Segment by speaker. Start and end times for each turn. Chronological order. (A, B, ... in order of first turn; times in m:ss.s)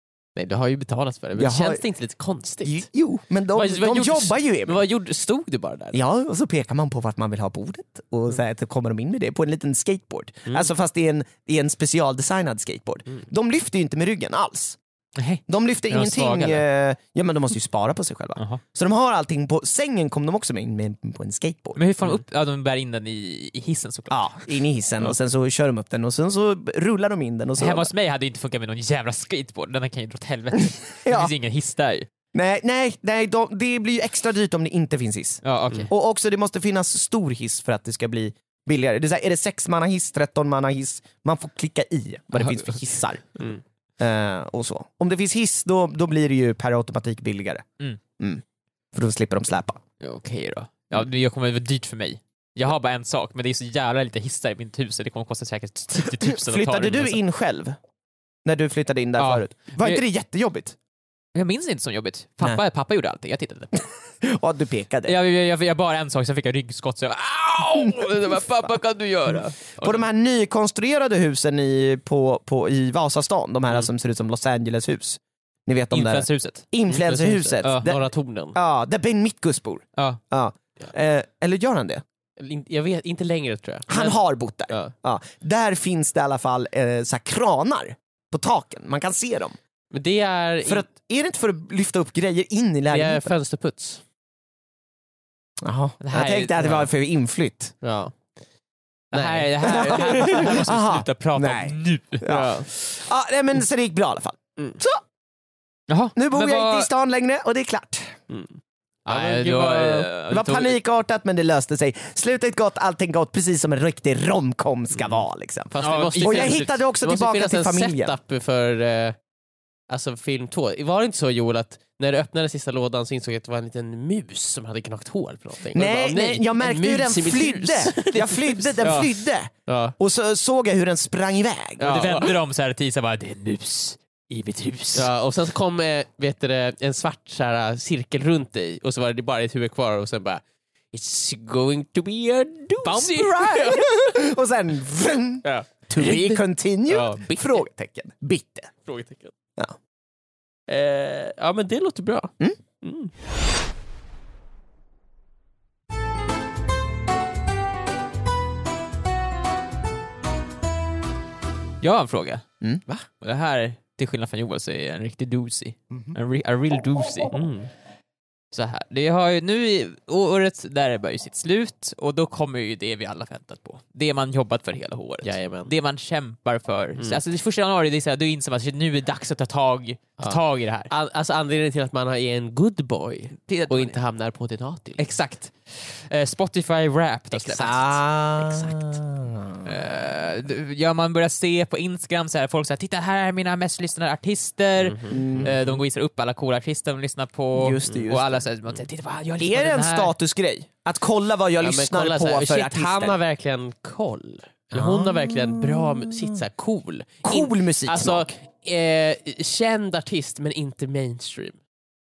0:00.4-0:02.9 A
0:01.4-0:01.8 B
0:02.6-0:04.8 B
0:03.5-0:06.0 A
0:05.9-0:14.8 B
0:15.2-0:16.6 C
0:15.5-0:21.8 B
0:18.4-0:18.6 C
0:21.8-0:24.2 C
0:24.1-0:27.9 B
0:27.6-0:32.1 C
0:31.0-0:31.3 B
0:32.3-0:43.4 B
0:35.4-0:35.9 C
0:42.3-0:42.8 C
0:44.0-0:47.6 B
0:48.2-0:49.8 B
0:50.0-0:57.2 C
0:56.1-0:57.8 B
0:58.4-1:00.8 B
0:59.2-1:00.0 C
1:01.4-1:03.8 C
1:04.2-1:05.2 B
1:05.1-1:10.0 C
1:09.8-1:18.0 B
1:15.9-1:16.6 C
1:16.9-1:18.6 A
1:17.6-1:17.9 C
1:18.6-1:22.0 B
1:22.4-1:24.2 A
1:23.9-1:29.6 B
1:29.9-1:30.9 A
1:30.6-1:33.3 B
1:32.9-1:34.0 A
1:35.6-1:37.7 B
1:36.0-1:36.9 C
1:37.8-1:38.2 A
1:39.1-1:42.3 C
1:39.1-1:40.6 A
1:39.6-1:45.0 B
1:42.3-1:42.7 A
1:45.9-1:46.9 C
1:46.2-1:48.2 B
1:48.3-1:50.1 A
1:49.1-1:50.8 C
1:50.3-1:58.2 B
1:55.7-1:59.2 A
1:55.8-1:56.7 C
1:59.9-2:09.2 A
2:05.8-2:12.0 B
2:09.7-2:09.9 A
2:11.8-2:12.4 A
2:11.8-2:15.1 C
2:15.0-2:20.4 A
2:20.9-2:24.2 A
2:22.8-2:23.5 C
2:23.2-2:28.7 B
2:25.4-2:27.6 A
2:28.8-2:29.3 A
2:30.7-2:33.1 A
2:41.8-2:42.4 C
2:43.2-2:47.3 C
2:45.9-2:46.2 B
2:47.3-2:47.7 A
2:48.5-3:00.9 C
2:55.2-2:55.7 A
3:00.2-3:05.0 A
3:03.4-3:04.0 C
3:05.0-3:08.0 C
3:07.3-3:07.8 A
3:07.6-3:09.7 B
3:08.4-3:09.0 A
3:09.6-3:20.1 C
3:14.8-3:15.8 A
3:15.1-3:15.6 B
3:17.6-3:18.4 B
3:19.4-3:23.2 B
3:21.6-3:31.6 A
3:24.7-3:26.4 B
3:27.2-3:28.3 B